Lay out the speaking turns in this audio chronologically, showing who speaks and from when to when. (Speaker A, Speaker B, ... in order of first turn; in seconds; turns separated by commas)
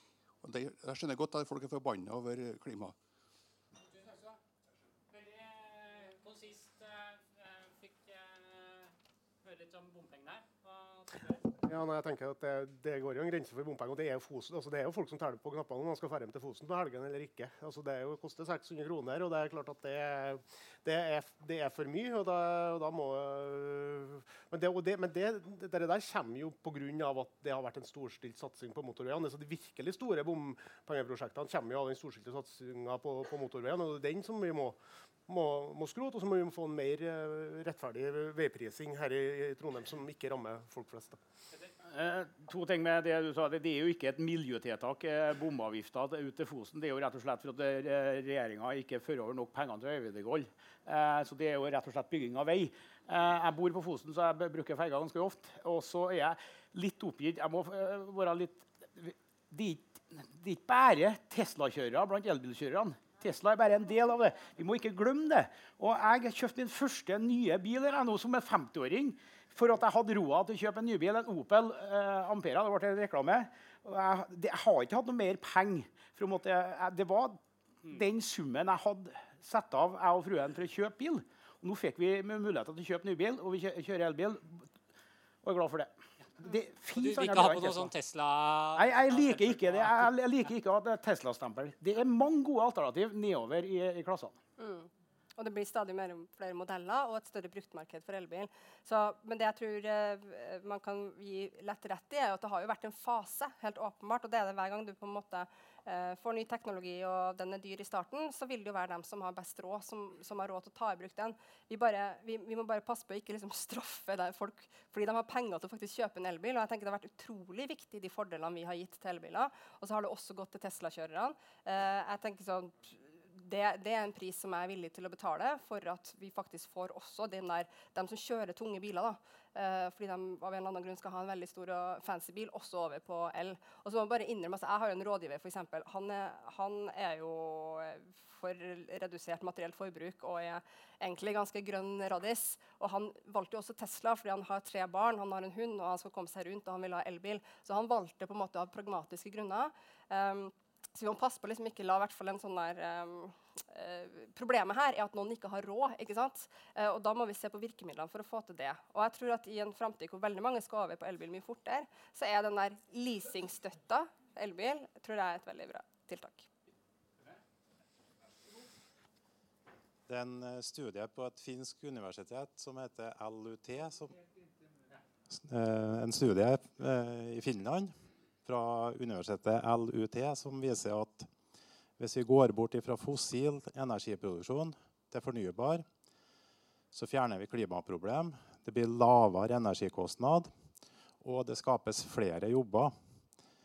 Speaker A: 0.4-3.0, Speaker B: 3.9-4.4, Speaker B: 5.1-8.9, Speaker B: 9.4-11.4, Speaker C: 11.6-41.2, Speaker D: 41.9-84.7, Speaker D: 85.4-85.9, Speaker D: 86.4-87.9, Speaker B: 87.0-90.1, Speaker D: 88.8-94.4, Speaker E: 94.6-166.5, Speaker F: 170.1-174.2, Speaker F: 175.3-181.3, Speaker F: 182.0-185.9, Speaker F: 186.9-190.7, Speaker F: 191.2-193.0